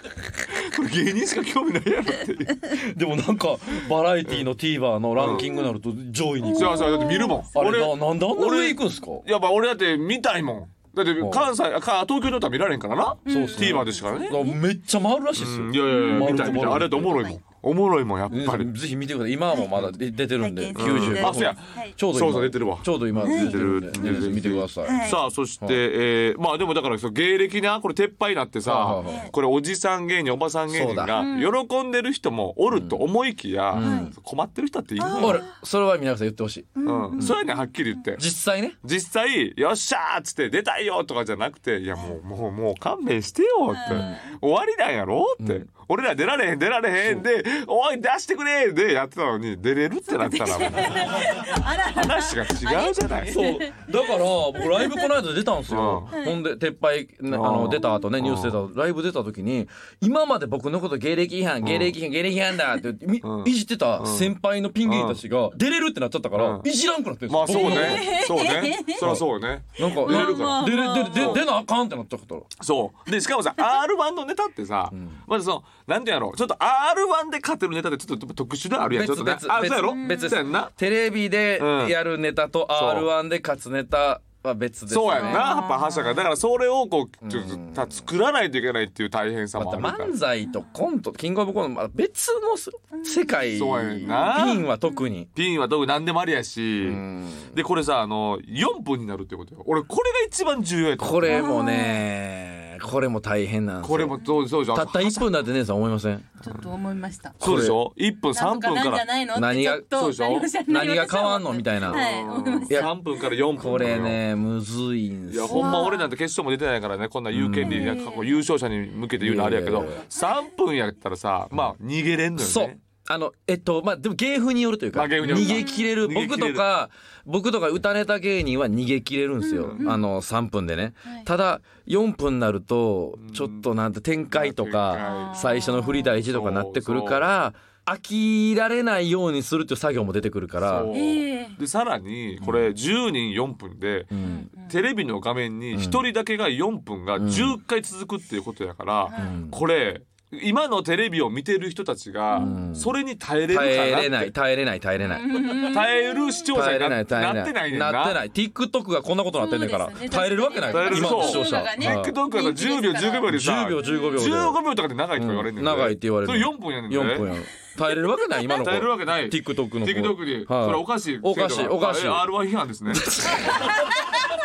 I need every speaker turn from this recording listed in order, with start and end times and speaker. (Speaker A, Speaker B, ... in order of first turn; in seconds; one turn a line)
Speaker A: 0.5-2.8
Speaker B: 2.7-9.2
Speaker A: 5.2-5.5
Speaker C: 5.3-5.7
Speaker C: 6.4-7.5
Speaker A: 6.5-14.4
Speaker B: 11.2-11.5
Speaker C: 13.3-14.6
Speaker B: 13.3-17.2
Speaker A: 15.4-18.7
Speaker C: 15.9-17.4
Speaker B: 18.3-25.8
Speaker C: 20.4-21.9
Speaker A: 20.8-35.4
Speaker C: 23.2-23.6
Speaker C: 24.8-25.2
Speaker B: 28.6-29.3
Speaker C: 29.0-29.3
Speaker B: 30.7-31.2
Speaker C: 31.2-31.5
Speaker B: 32.7-33.0
Speaker B: 33.7-34.1
Speaker C: 33.8-34.1
Speaker C: 35.0-35.5
Speaker B: 35.1-37.4
Speaker C: 36.8-37.6
Speaker A: 36.9-38.2
Speaker B: 38.2-38.8
Speaker A: 38.8-53.4
Speaker C: 43.7-44.2
Speaker B: 43.9-44.2
Speaker B: 45.4-45.7
Speaker C: 50.1-53.9
Speaker B: 53.3-68.2
Speaker C: 54.6-55.1
Speaker A: 55.7-56.1
Speaker C: 56.1-56.4
Speaker A: 57.3-58.6
Speaker A: 61.6-62.0
Speaker A: 63.2-64.3
Speaker A: 64.8-65.2
Speaker A: 66.4-66.7
Speaker A: 67.3-71.4
Speaker C: 67.5-69.0
Speaker B: 69.0-69.2
Speaker B: 69.8-72.5
Speaker C: 69.8-71.4
Speaker A: 72.6-80.7
Speaker B: 74.9-75.2
Speaker B: 78.9-85.5
Speaker C: 79.8-80.5
Speaker A: 81.6-82.0
Speaker A: 82.7-83.1
Speaker A: 84.9-90.1
Speaker C: 85.1-86.2
Speaker B: 87.2-87.9
Speaker B: 89.6-95.3
Speaker C: 92.9-95.0
Speaker A: 93.5-94.7
Speaker A: 95.3-101.5
Speaker B: 96.8-97.6
Speaker B: 101.0-104.2
Speaker C: 101.3-102.0
Speaker A: 103.8-105.3
Speaker B: 104.7-106.3
Speaker C: 106.4-107.4
Speaker B: 107.4-107.8
Speaker A: 107.4-109.1
Speaker C: 108.3-113.1
Speaker B: 109.3-109.9
Speaker A: 109.9-110.5
Speaker B: 110.7-112.0
Speaker A: 111.9-114.2
Speaker B: 112.7-112.9
Speaker B: 113.6-115.9
Speaker A: 115.3-122.8
Speaker C: 115.5-116.1
Speaker B: 117.3-118.0
Speaker C: 117.6-118.4
Speaker B: 119.2-120.0
Speaker B: 122.4-140.9
Speaker A: 124.9-126.6
Speaker C: 125.3-125.9
Speaker C: 129.4-130.0
Speaker A: 129.6-129.9
Speaker A: 133.2-133.7
Speaker A: 134.3-135.3
Speaker C: 134.9-136.1
Speaker A: 136.2-137.3
Speaker A: 140.7-154.3
Speaker C: 140.9-141.6
Speaker B: 144.1-144.5
Speaker C: 144.2-144.8
Speaker B: 145.7-146.0
Speaker B: 147.2-147.6
Speaker C: 149.1-149.4
Speaker B: 149.2-149.6
Speaker C: 152.3-152.6
Speaker B: 152.4-152.9
Speaker B: 153.5-155.6
Speaker C: 155.1-156.4
Speaker A: 155.5-158.2
Speaker B: 156.5-162.2
Speaker C: 159.4-164.3
Speaker A: 160.7-167.3
Speaker B: 163.3-164.6
Speaker B: 165.2-172.3
Speaker A: 168.6-173.1
Speaker B: 172.9-173.9
Speaker C: 173.8-174.2